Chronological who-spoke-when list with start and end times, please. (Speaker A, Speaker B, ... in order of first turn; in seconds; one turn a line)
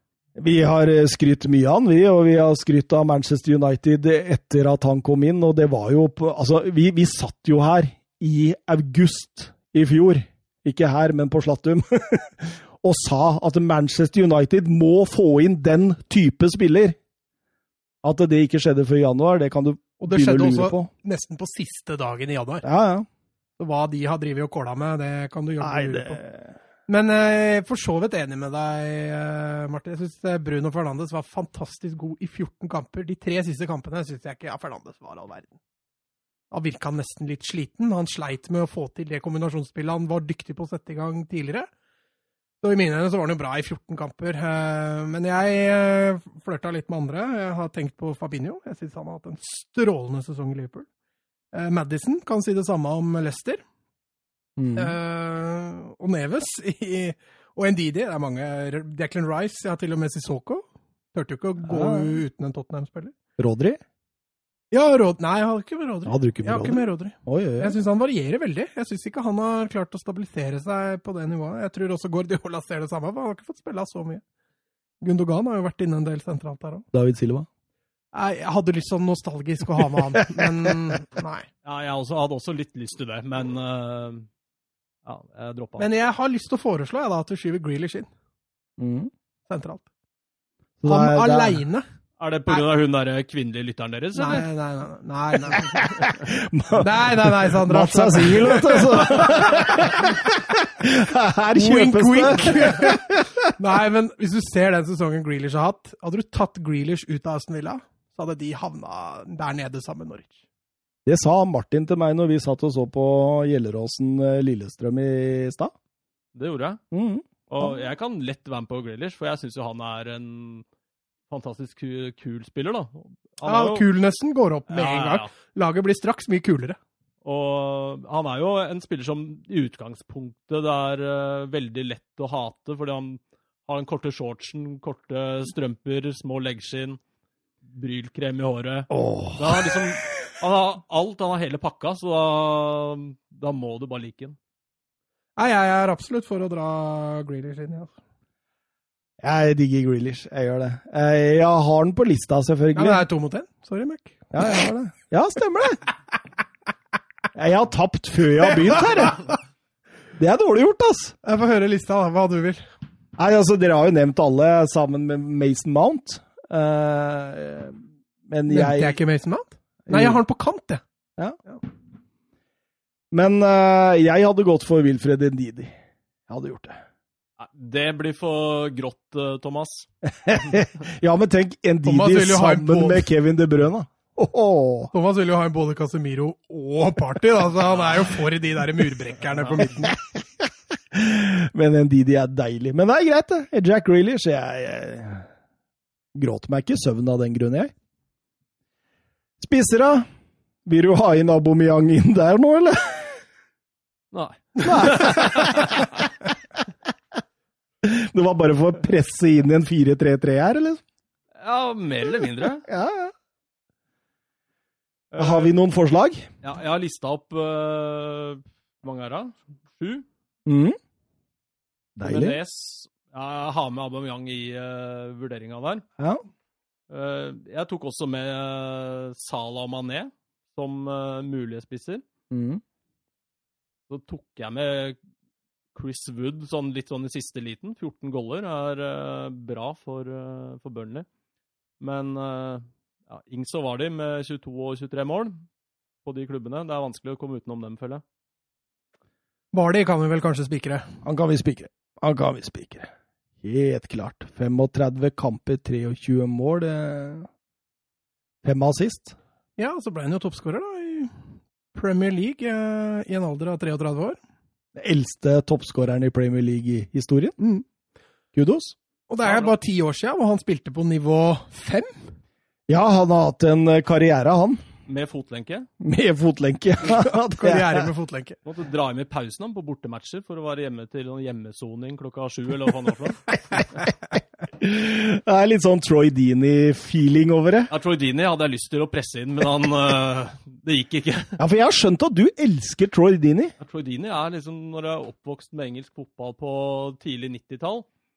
Speaker A: 0.3-17.0
Speaker A: 18.0-20.9
Speaker B: 20.0-22.6
Speaker A: 22.6-23.1
Speaker B: 23.6-26.2
Speaker A: 25.6-26.5
Speaker B: 26.9-35.5
Speaker B: 36.5-41.7
Speaker B: 42.6-50.9
Speaker B: 51.5-53.6
Speaker A: 54.6-55.0
Speaker B: 54.8-60.6
Speaker B: 61.1-63.1
Speaker A: 61.7-62.2
Speaker A: 63.4-63.8
Speaker B: 64.7-74.2
Speaker A: 66.0-67.8
Speaker B: 75.0-76.8
Speaker A: 76.9-77.5
Speaker B: 78.1-81.5
Speaker A: 80.4-81.0
Speaker C: 81.6-84.3
Speaker C: 85.0-85.9
Speaker B: 85.8-88.1
Speaker A: 88.8-89.1
Speaker B: 89.5-89.8
Speaker A: 90.8-91.6
Speaker B: 90.9-91.8
Speaker C: 92.2-94.5
Speaker B: 94.1-95.8
Speaker A: 95.7-103.5
Speaker B: 96.8-100.0
Speaker B: 101.5-110.4
Speaker A: 111.0-115.7
Speaker C: 116.3-116.8
Speaker A: 116.9-117.7
Speaker C: 117.5-120.7
Speaker C: 121.3-123.8
Speaker B: 123.5-126.8
Speaker C: 124.7-125.3
Speaker C: 127.2-137.0
Speaker C: 137.6-144.4
Speaker A: 138.9-139.9
Speaker B: 145.4-147.9
Speaker A: 149.2-153.0
Speaker B: 152.8-154.3
Speaker A: 154.3-155.8
Speaker A: 157.3-159.3
Speaker A: 160.2-161.2
Speaker B: 161.2-162.6
Speaker A: 163.2-167.8
Speaker A: 168.3-169.0
Speaker B: 168.5-170.8
Speaker A: 169.9-170.2
Speaker A: 173.1-175.7
Speaker A: 176.3-176.8
Speaker C: 177.4-180.6
Speaker A: 180.1-184.9
Speaker B: 181.8-183.1
Speaker B: 184.9-189.9
Speaker A: 190.4-195.3
Speaker A: 196.1-197.7
Speaker A: 199.4-200.1
Speaker A: 200.7-203.2
Speaker C: 204.1-205.9
Speaker A: 204.6-206.0
Speaker A: 207.8-210.8
Speaker C: 211.4-212.7
Speaker A: 212.6-213.1
Speaker C: 215.1-215.5
Speaker A: 215.2-216.2
Speaker C: 216.4-220.1
Speaker A: 220.4-220.8
Speaker A: 222.0-222.4
Speaker C: 222.0-225.8
Speaker C: 226.9-232.0
Speaker A: 232.3-232.6
Speaker C: 233.9-235.0
Speaker C: 235.7-241.1
Speaker C: 241.8-245.4
Speaker C: 246.0-248.0
Speaker B: 249.5-250.9
Speaker A: 251.0-252.9
Speaker A: 253.4-257.3
Speaker A: 258.4-259.1
Speaker B: 259.6-261.1
Speaker B: 261.7-264.2
Speaker A: 264.8-267.4
Speaker B: 267.4-267.6
Speaker A: 268.3-268.7
Speaker B: 269.1-272.1
Speaker C: 269.2-269.5
Speaker A: 272.7-274.6
Speaker C: 274.9-275.7
Speaker A: 275.8-277.9
Speaker B: 276.9-278.4
Speaker C: 278.4-283.3
Speaker A: 284.6-287.7
Speaker C: 287.7-291.4
Speaker A: 291.4-293.5
Speaker C: 293.6-297.9